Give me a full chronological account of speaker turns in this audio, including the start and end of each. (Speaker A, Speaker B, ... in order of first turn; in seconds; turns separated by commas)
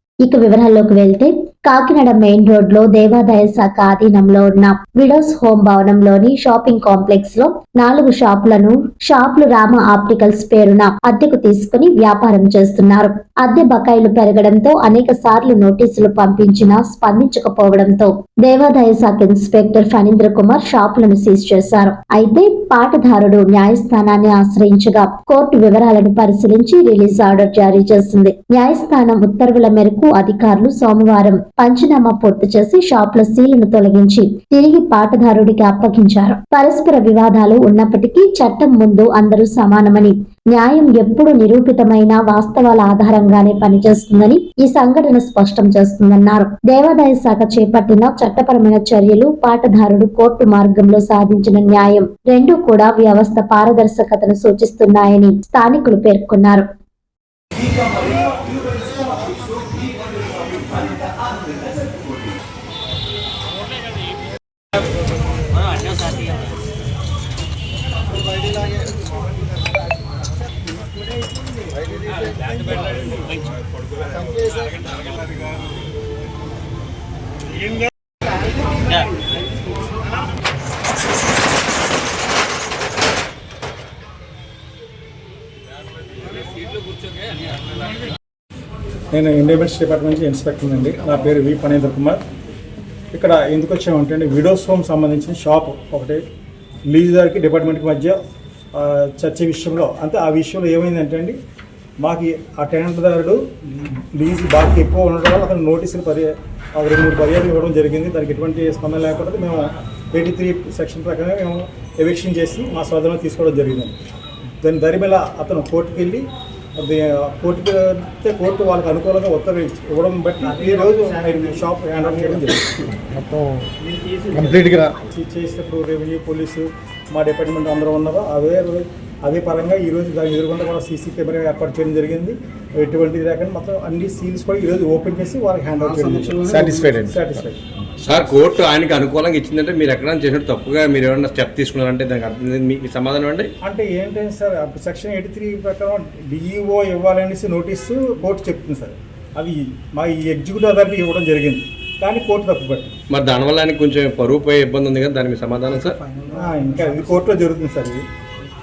Speaker A: 0.2-56.6, Speaker B: 89.1-92.2, Speaker B: 93.1-96.2, Speaker B: 96.9-98.2, Speaker B: 98.7-101.4, Speaker B: 102.0-114.0, Speaker B: 114.6-116.2, Speaker B: 116.8-122.7, Speaker C: 120.4-122.5, Speaker C: 123.8-124.9, Speaker B: 125.1-137.6, Speaker C: 135.8-137.1, Speaker D: 138.1-143.5, Speaker B: 143.6-152.9, Speaker D: 153.1-156.0, Speaker C: 155.8-157.2, Speaker B: 156.3-158.0